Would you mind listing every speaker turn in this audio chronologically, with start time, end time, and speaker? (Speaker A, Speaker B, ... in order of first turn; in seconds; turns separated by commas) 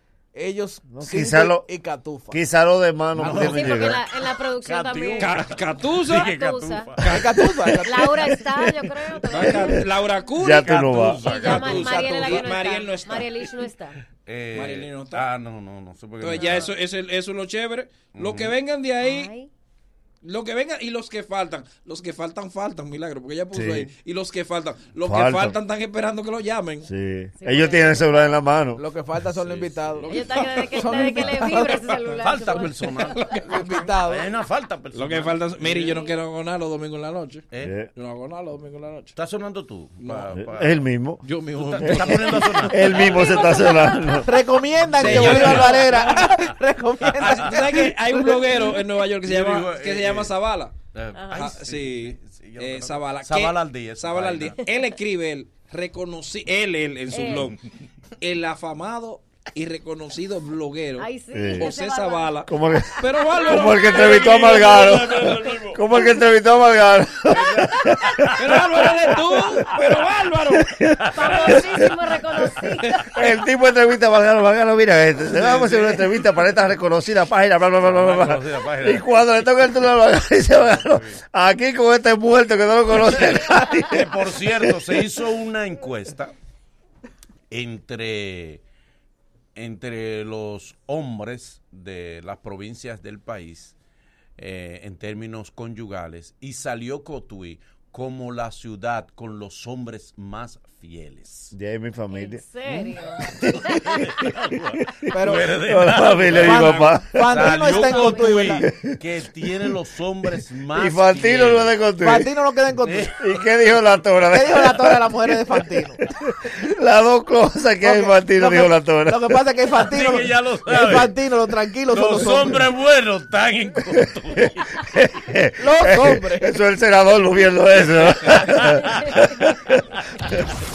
Speaker A: 0.3-2.4, Speaker B: 0.9-1.6, Speaker B: 2.3-4.0, Speaker A: 3.1-3.9, Speaker C: 3.2-8.1, Speaker D: 3.4-5.4, Speaker E: 5.2-6.3, Speaker D: 6.1-7.0, Speaker A: 7.0-8.5, Speaker D: 7.8-9.8, Speaker C: 8.7-9.3, Speaker E: 9.3-10.7, Speaker B: 10.4-11.3, Speaker C: 10.6-12.5, Speaker D: 11.1-14.0, Speaker E: 11.5-13.3, Speaker A: 11.5-12.4, Speaker C: 14.2-16.7, Speaker E: 14.5-15.2, Speaker E: 16.2-19.3, Speaker D: 16.3-16.6, Speaker C: 18.1-18.5, Speaker D: 19.0-19.5, Speaker E: 20.2-26.9, Speaker B: 23.5-23.9, Speaker B: 25.0-25.6, Speaker B: 26.8-28.8, Speaker D: 27.4-28.3, Speaker A: 28.8-32.3, Speaker C: 29.2-31.5, Speaker D: 30.0-33.4, Speaker E: 30.0-30.7, Speaker C: 32.0-33.3, Speaker E: 33.1-33.8, Speaker A: 33.4-34.3, Speaker C: 34.0-36.0, Speaker E: 34.9-39.1, Speaker B: 37.6-37.9, Speaker C: 39.1-40.8, Speaker E: 40.0-40.4, Speaker B: 40.4-41.2, Speaker E: 41.2-42.5, Speaker C: 41.5-43.7, Speaker D: 42.4-44.2, Speaker B: 42.6-44.3, Speaker A: 44.2-48.7, Speaker C: 44.9-47.6, Speaker E: 45.0-46.1, Speaker E: 47.2-50.8, Speaker C: 49.2-50.3, Speaker C: 50.9-54.6, Speaker D: 51.1-51.5, Speaker E: 51.3-57.6, Speaker D: 57.1-57.5, Speaker E: 58.2-65.6, Speaker D: 61.0-62.4, Speaker B: 61.3-61.7, Speaker B: 62.5-69.6, Speaker C: 64.2-66.0, Speaker C: 67.3-69.9, Speaker E: 68.4-70.7, Speaker B: 70.7-71.8, Speaker C: 71.0-71.7, Speaker D: 71.1-73.2, Speaker E: 72.8-73.1, Speaker B: 73.1-84.1, Speaker C: 75.3-76.0, Speaker E: 75.5-76.0, Speaker C: 77.8-79.1, Speaker C: 80.6-81.2, Speaker C: 83.9-86.3, Speaker C: 87.5-88.6, Speaker C: 89.5-93.7, Speaker C: 94.4-101.5, Speaker B: 101.5-102.4, Speaker D: 102.1-104.2, Speaker C: 102.6-111.8, Speaker B: 103.3-104.0, Speaker A: 105.1-105.6, Speaker B: 105.2-107.5, Speaker A: 106.3-108.7, Speaker E: 106.4-107.0, Speaker D: 107.6-108.4, Speaker B: 108.6-108.9, Speaker B: 110.7-112.3, Speaker A: 112.0-113.1, Speaker C: 112.8-113.2, Speaker B: 113.1-119.4, Speaker A: 114.3-116.0, Speaker A: 117.8-122.7, Speaker C: 119.7-124.8, Speaker B: 124.9-129.8, Speaker A: 125.6-126.5, Speaker C: 127.8-129.1